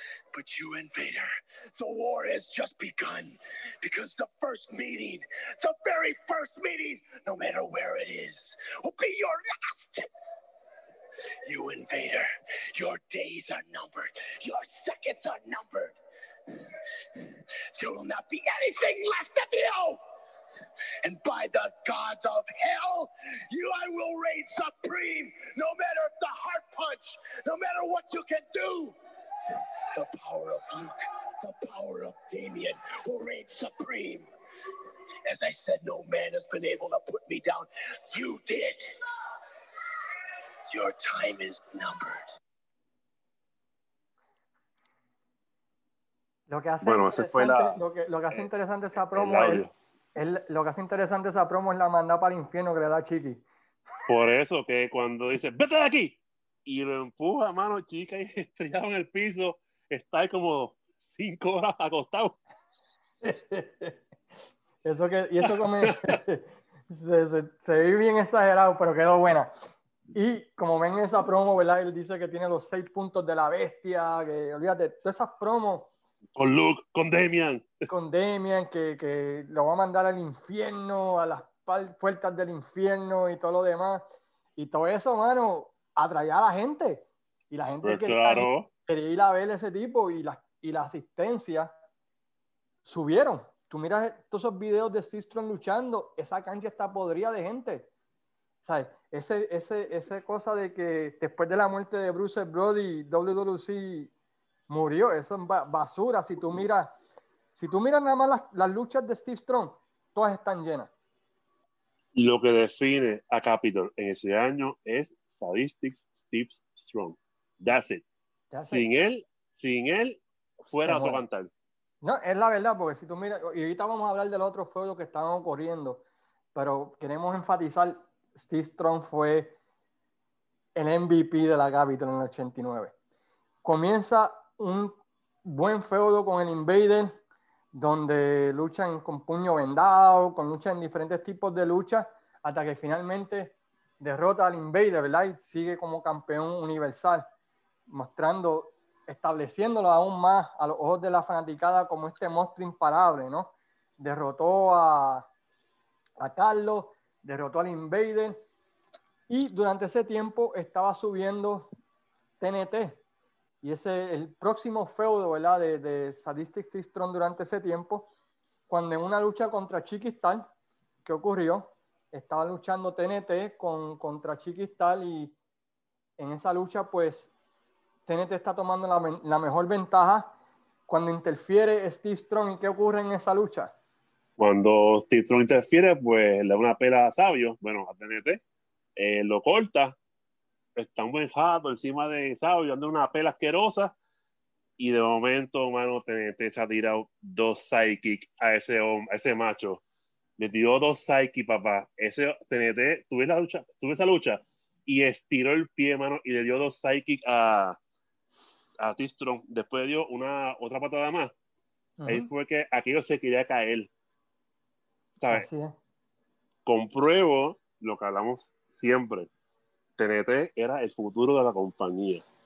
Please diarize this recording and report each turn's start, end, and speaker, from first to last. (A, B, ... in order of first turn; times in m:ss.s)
0:00.3-0:10.1 A
0:11.4-0:16.0 A
0:16.5-0:20.0 A
0:21.0-0:28.9 A
0:29.5-0:34.3 A
0:35.2-0:38.9 A
0:40.7-0:42.2 A
0:46.5-0:53.4 B
0:46.8-0:47.8 C
0:49.1-0:49.7 C
0:54.1-1:02.4 C
1:03.2-1:04.0 B
1:04.8-1:09.5 B
1:10.1-1:15.9 B
1:16.4-1:17.8 C
1:17.9-1:24.0 B
1:24.6-1:31.7 B
1:27.8-1:28.7 C
1:32.8-1:37.9 B
1:38.6-1:44.1 B
1:44.7-1:47.0 B
1:47.6-1:50.9 B
1:52.1-1:58.0 C
1:58.5-1:58.9 B
1:58.6-2:01.5 C
2:00.8-2:01.2 B
2:02.0-2:09.6 B
2:10.7-2:12.9 B
2:13.6-2:17.2 B
2:17.7-2:27.2 B
2:27.9-2:35.3 B
2:36.2-2:38.5 B
2:39.3-2:41.7 B
2:42.4-2:43.0 B
2:43.6-2:48.1 B
2:48.7-2:50.5 B
2:51.0-2:55.3 B
2:56.2-2:57.3 B
2:58.1-3:00.4 B
3:00.9-3:03.7 B
3:04.4-3:08.4 C
3:09.0-3:10.0 C
3:10.8-3:14.0 C
3:14.8-3:19.8 C
3:20.4-3:27.8 C
3:28.8-3:31.3 C
3:32.0-3:32.3 B
3:32.0-3:33.9 C
3:35.2-3:35.5 C
3:35.3-3:35.8 B
3:36.6-3:39.3 C
3:40.0-3:42.2 C